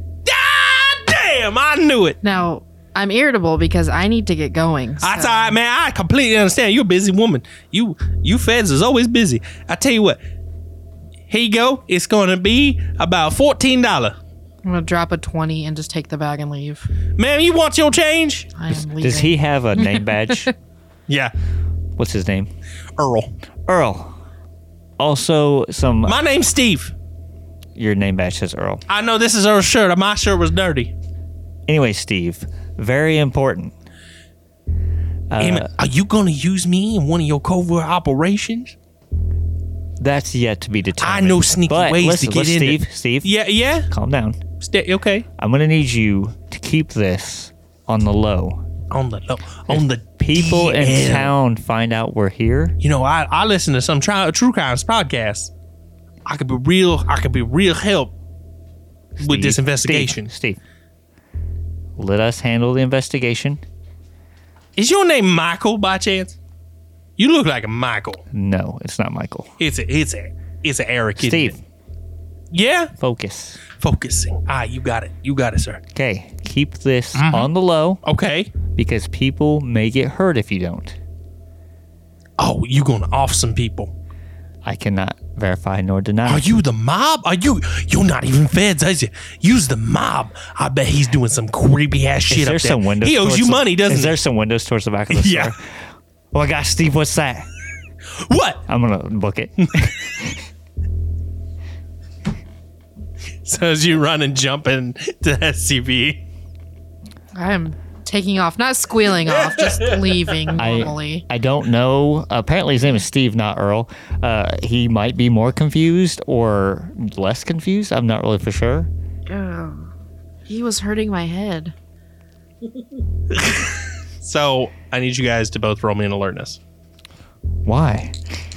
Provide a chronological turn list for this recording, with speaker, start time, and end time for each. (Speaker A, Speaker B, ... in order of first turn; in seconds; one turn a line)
Speaker A: 0.2-2.2
Speaker B: 2.2-5.5
Speaker A: 5.0-10.2
Speaker A: 11.3-14.2
Speaker B: 14.6-16.9
Speaker A: 17.2-18.5
Speaker B: 18.6-20.5
Speaker C: 19.0-20.5
Speaker A: 21.1-21.3
Speaker C: 22.0-22.5
Speaker A: 23.0-23.3
Speaker C: 23.7-24.2
Speaker C: 25.0-26.2
Speaker A: 26.1-26.9
Speaker C: 27.7-28.8
Speaker A: 28.9-30.9
Speaker C: 31.7-33.7
Speaker C: 35.3-35.7
Speaker A: 35.4-38.7
Speaker C: 40.0-43.3
Speaker A: 41.0-43.9
Speaker C: 43.9-44.4
Speaker A: 44.6-45.3
Speaker C: 45.4-48.6
Speaker A: 48.9-51.3
Speaker C: 49.7-52.8
Speaker A: 52.8-55.5
Speaker A: 56.2-58.1
Speaker C: 59.2-60.6
Speaker A: 59.2-60.3
Speaker C: 62.0-63.6
Speaker A: 64.8-66.4
Speaker A: 67.2-68.2
Speaker C: 68.3-69.5
Speaker A: 69.6-71.6
Speaker C: 71.2-71.6
Speaker A: 72.5-72.9
Speaker C: 73.0-73.6
Speaker A: 73.8-75.8
Speaker C: 75.9-78.0
Speaker A: 77.1-77.5
Speaker A: 78.0-78.5
Speaker C: 78.7-81.0
Speaker A: 82.4-83.9
Speaker C: 84.6-86.5
Speaker A: 86.2-94.2
Speaker C: 92.3-95.7
Speaker A: 95.1-95.5
Speaker C: 96.3-97.5
Speaker A: 98.2-98.6
Speaker C: 98.7-100.3
Speaker A: 103.4-106.2
Speaker B: 107.3-111.2
Speaker C: 110.5-118.9
Speaker B: 119.3-119.9
Speaker B: 120.5-121.7
Speaker A: 123.3-126.6
Speaker C: 127.6-128.2